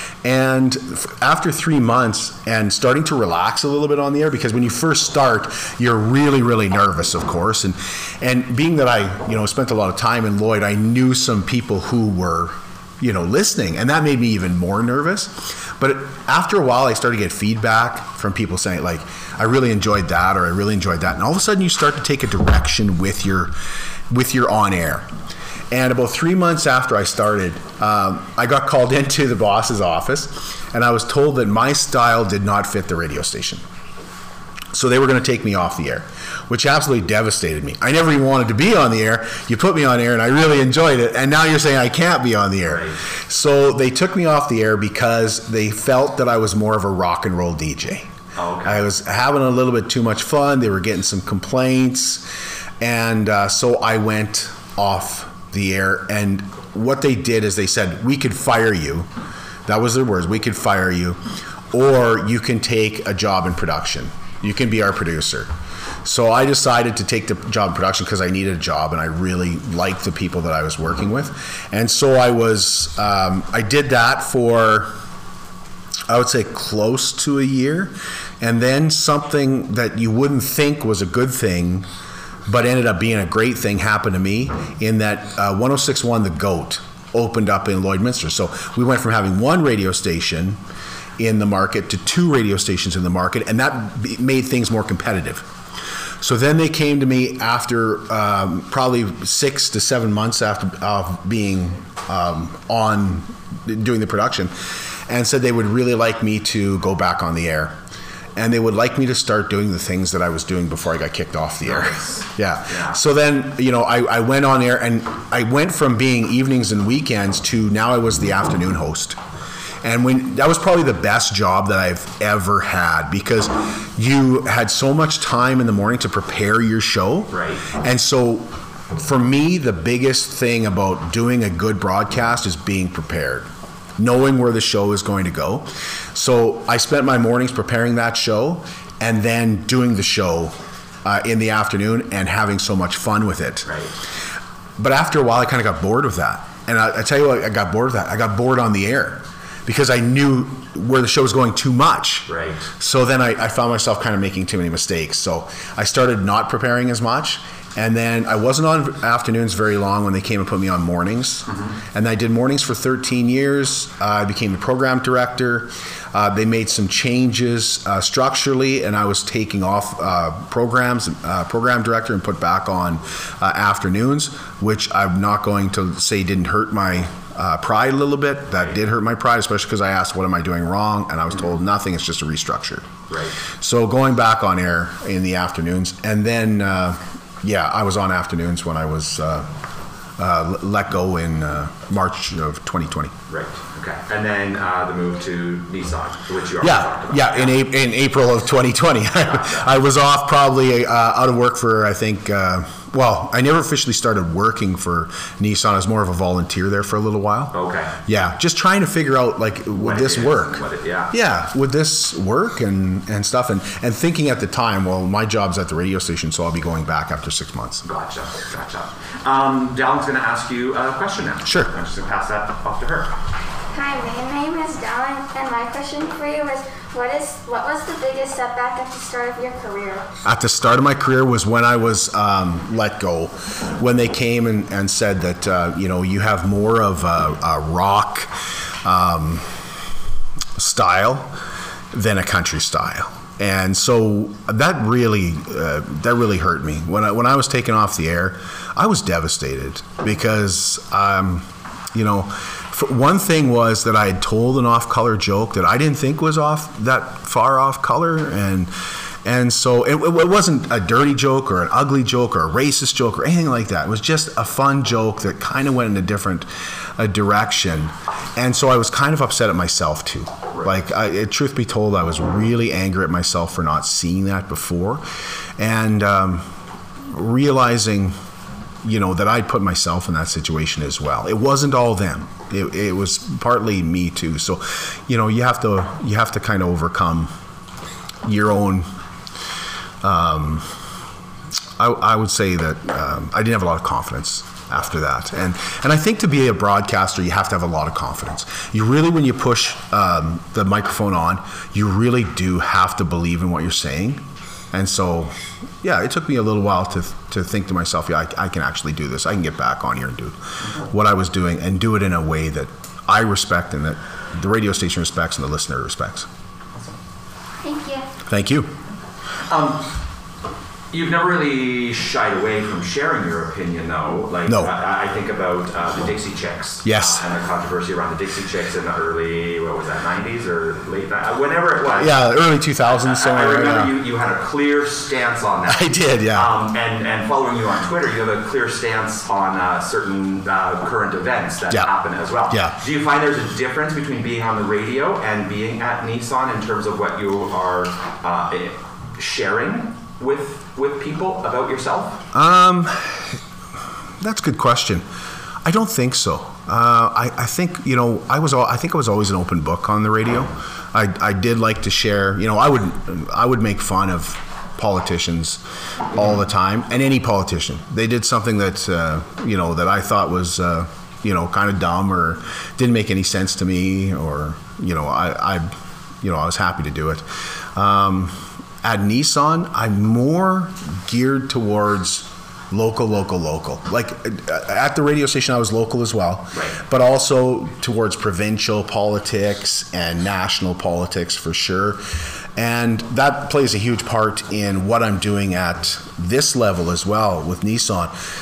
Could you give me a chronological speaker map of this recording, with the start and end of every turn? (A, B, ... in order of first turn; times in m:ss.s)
0:00.2-0:23.5 A
0:24.1-0:25.1 A
0:25.7-0:33.6 A
0:34.7-0:48.1 A
0:42.6-0:43.0 B
0:48.4-0:48.8 B
0:48.6-0:52.3 A
0:52.8-0:59.1 A
0:59.6-1:01.2 A
1:01.7-1:05.5 A
1:06.0-1:14.9 A
1:16.1-1:21.9 A
1:22.4-1:30.6 A
1:31.2-1:35.5 A
1:36.2-1:47.8 A
1:48.4-1:59.2 A
1:51.6-1:53.0 B
1:59.8-2:23.7 A
2:07.3-2:07.6 B
2:23.6-2:23.9 B
2:24.8-3:02.9 A
2:32.3-2:32.7 B
3:03.1-3:03.4 B
3:03.4-3:09.5 A
3:10.2-3:13.2 A
3:13.3-3:17.6 B
3:16.6-3:27.5 A
3:19.2-3:19.7 B
3:27.5-3:27.9 B
3:28.0-3:37.9 A
3:29.7-3:31.1 B
3:37.8-3:43.1 B
3:41.4-3:41.7 A
3:43.7-3:50.0 C
3:50.2-3:58.3 A
3:58.8-3:59.7 A
4:00.6-4:01.3 A
4:01.9-4:18.7 A
4:19.2-4:35.0 A
4:35.6-4:36.5 A
4:37.0-4:38.1 A
4:38.8-4:47.3 A
4:48.2-4:48.9 A
4:50.0-4:50.7 A
4:51.8-5:16.3 A
5:17.6-5:18.1 C
5:18.2-5:18.7 A
5:19.5-5:19.9 B
5:20.9-5:32.2 B
5:24.5-5:24.7 A
5:26.8-5:27.2 A
5:32.0-5:34.0 A
5:32.8-5:52.2 B
5:35.7-5:36.5 A
5:42.5-5:42.8 A
5:52.3-5:53.4 A
5:54.2-5:55.0 A
5:55.6-6:05.6 A
6:06.1-6:15.7 A
6:16.2-6:32.0 A
6:26.5-6:26.8 B
6:32.6-6:38.1 A